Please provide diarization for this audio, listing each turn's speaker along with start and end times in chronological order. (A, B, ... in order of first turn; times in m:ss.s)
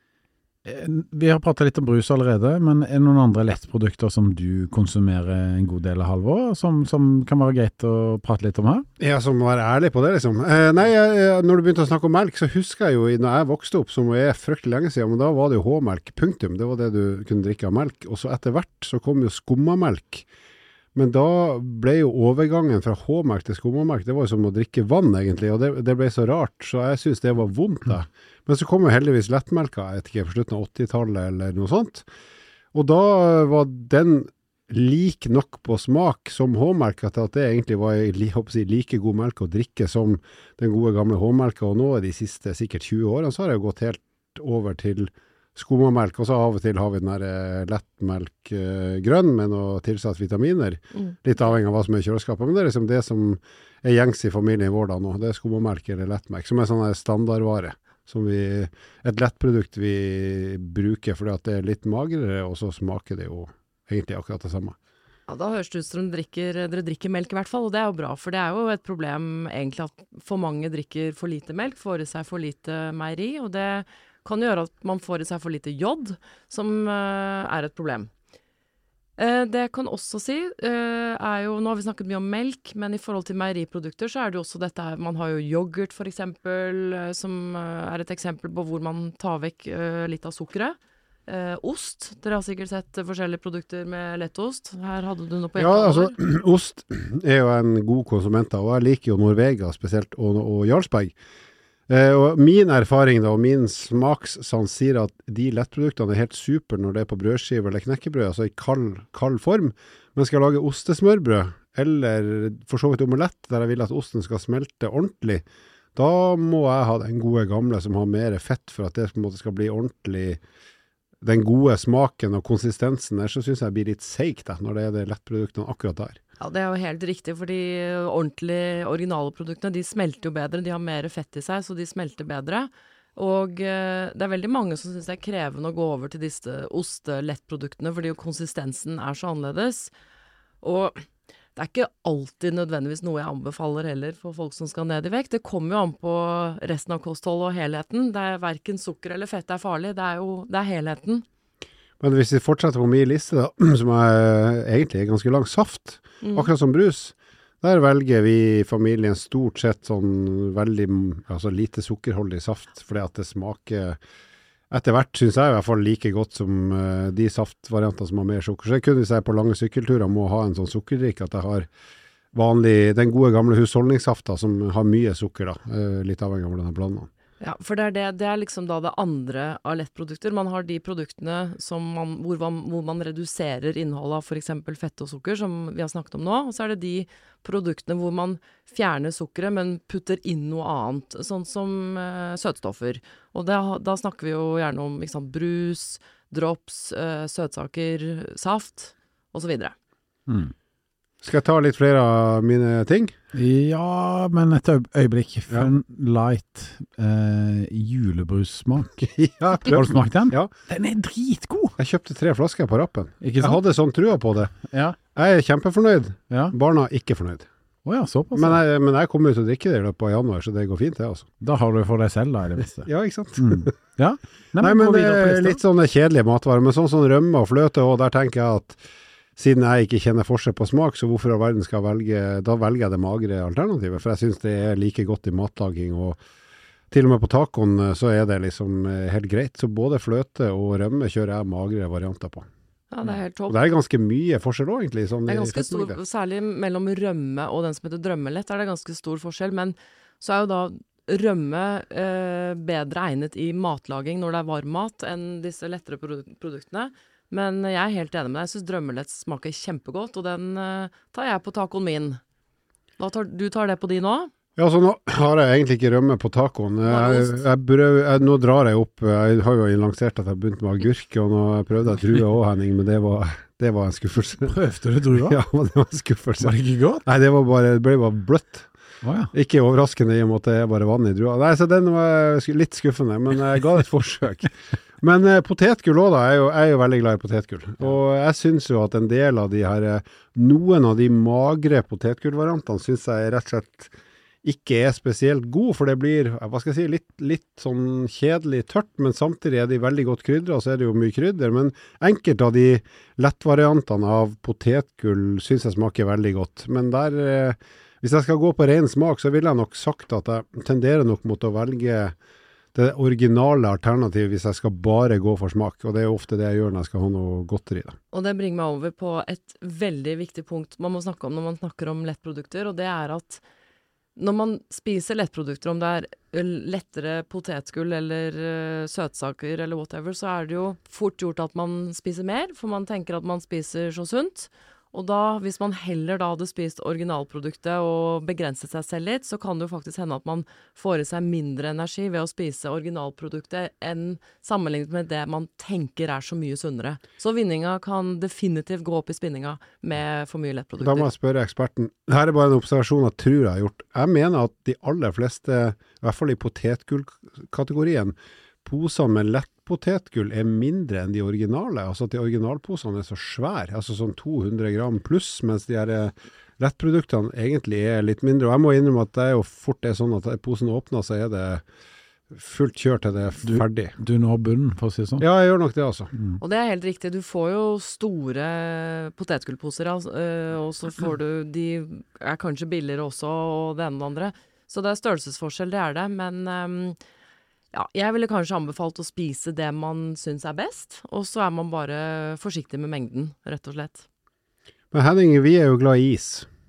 0:00.6-0:08.9 A
0:09.0-0:20.3 B
0:21.0-0:32.0 B
0:32.7-1:04.8 B
1:05.3-1:18.1 C
1:19.2-1:36.2 C
1:35.6-1:41.2 B
1:41.9-1:55.4 B
1:56.0-2:00.4 B
2:01.2-2:06.2 B
2:06.4-2:19.9 C
2:20.6-2:31.2 C
2:32.0-2:44.0 B
2:36.2-2:36.5 C
2:44.7-2:51.7 B
2:52.3-2:57.1 B
2:57.4-3:19.8 C
3:20.3-3:20.5 A
3:21.2-3:23.2 B
3:23.3-3:29.1 A
3:29.2-3:30.5 B
3:29.7-3:31.8 A
3:31.8-3:34.6 B
3:33.2-3:33.6 A
3:34.6-3:35.0 A
3:35.2-3:37.5 B
3:37.8-3:38.6 A
3:38.4-3:41.3 B
3:41.4-3:45.6 A
3:42.9-3:43.7 B
3:44.6-3:48.8 B
3:49.4-3:56.2 B
3:56.9-4:02.5 B
4:02.9-4:03.6 C
4:03.5-4:06.0 B
4:05.3-4:22.2 C
4:23.0-4:24.3 C
4:24.6-4:34.6 B
4:26.8-4:27.4 C
4:34.4-4:35.4 A
4:35.2-4:38.7 B
4:36.4-4:37.0 A
4:39.0-4:39.3 A
4:39.3-4:53.9 B
4:54.4-5:12.2 B
5:12.7-5:18.0 B
5:18.1-5:23.4 C
5:24.2-5:51.1 C
5:50.8-6:11.6 B
6:12.3-6:14.0 B
6:13.4-6:15.2 A
6:15.2-6:16.1 B
6:16.4-6:27.0 C
6:27.7-6:34.1 C
6:34.9-6:36.5 B